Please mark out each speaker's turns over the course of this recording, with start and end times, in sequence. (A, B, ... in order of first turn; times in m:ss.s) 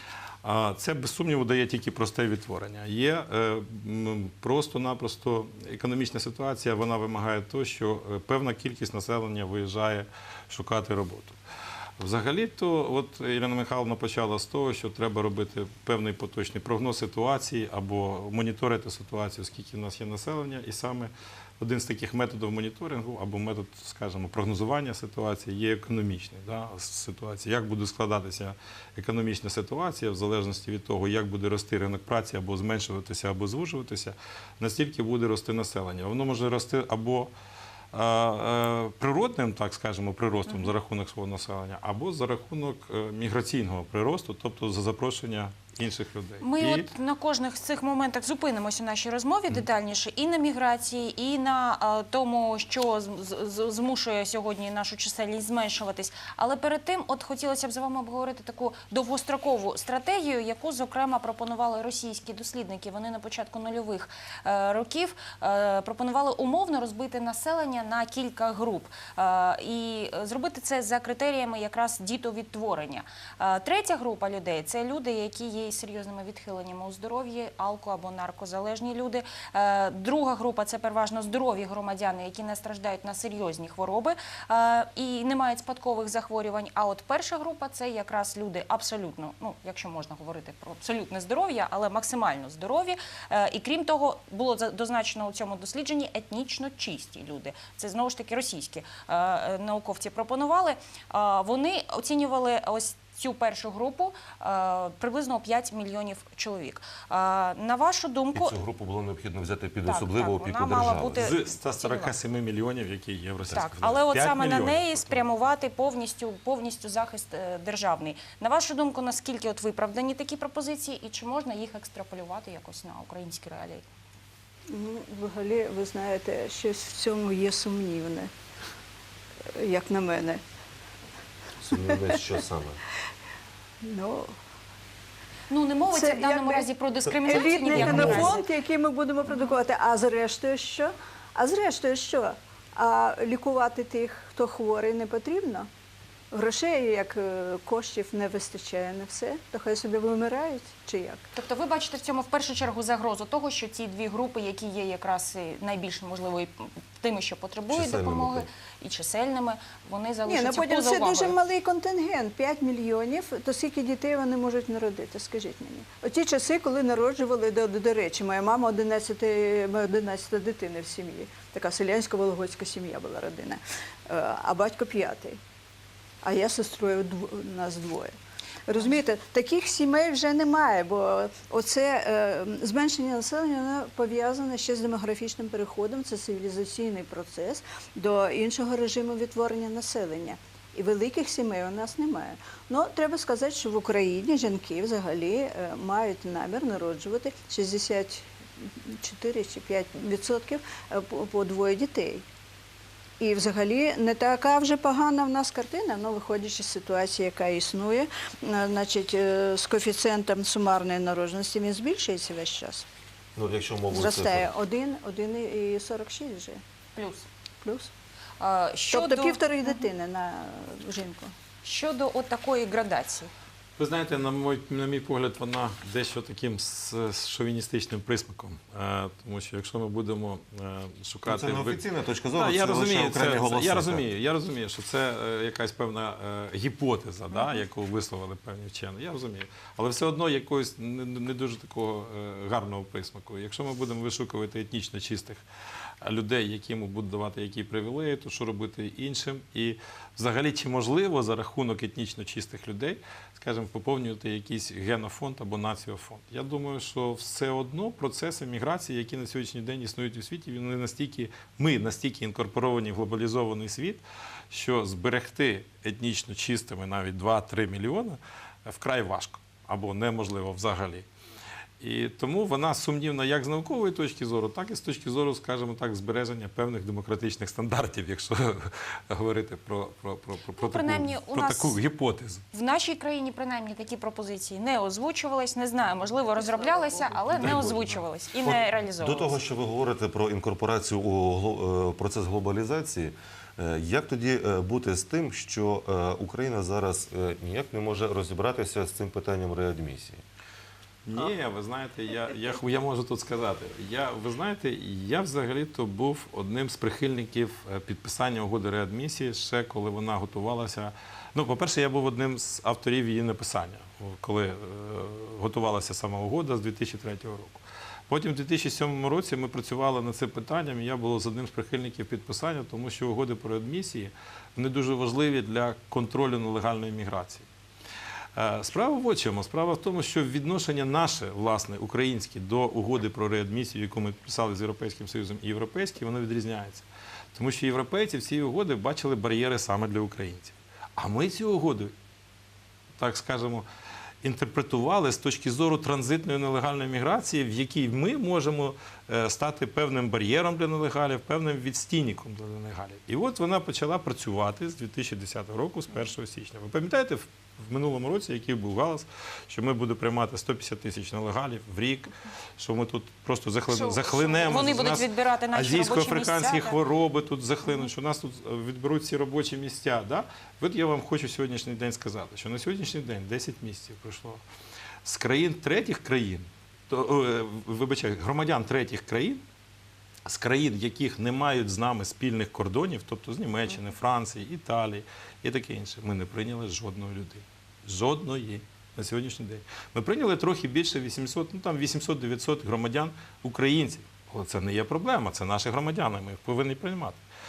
0:00.4-0:11.4 A
0:12.0-0:37.3 A
0:37.9-0:46.9 A
0:46.4-1:48.6 B
1:48.3-1:51.3 C
1:49.8-1:52.2 B
1:51.1-1:55.3 A
1:53.5-2:03.9 B
2:04.7-2:08.3 D
2:09.6-2:10.4 D
2:11.6-2:12.8 C
2:13.8-2:14.3 D
2:15.5-2:18.4 B
2:15.9-2:16.7 D
2:17.1-2:18.4 C
2:17.3-2:25.7 D
2:26.3-2:31.2 D
2:31.3-2:41.4 B
2:37.7-2:38.5 C
2:40.2-2:55.4 D
2:56.2-2:58.1 D
2:58.7-3:22.2 D
3:23.2-3:32.9 D
3:33.4-3:34.5 C
3:33.9-3:36.6 D
3:36.9-3:37.3 B
3:37.6-3:37.9 D
3:38.4-3:39.9 B
3:38.9-3:41.3 D
3:41.6-3:43.3 B
3:43.8-4:05.4 A
3:51.2-3:54.0 C
4:06.0-4:31.1 A
4:31.8-4:42.4 A
4:40.6-4:41.8 B
4:42.5-4:49.4 B
4:47.2-4:47.9 A
4:47.4-5:00.2 C
5:01.0-5:27.5 A
5:28.4-5:41.9 A
5:43.0-5:43.7 A
5:44.2-6:14.4 A
6:03.7-6:06.8 B
6:15.0-6:19.4 A
6:20.3-6:37.2 A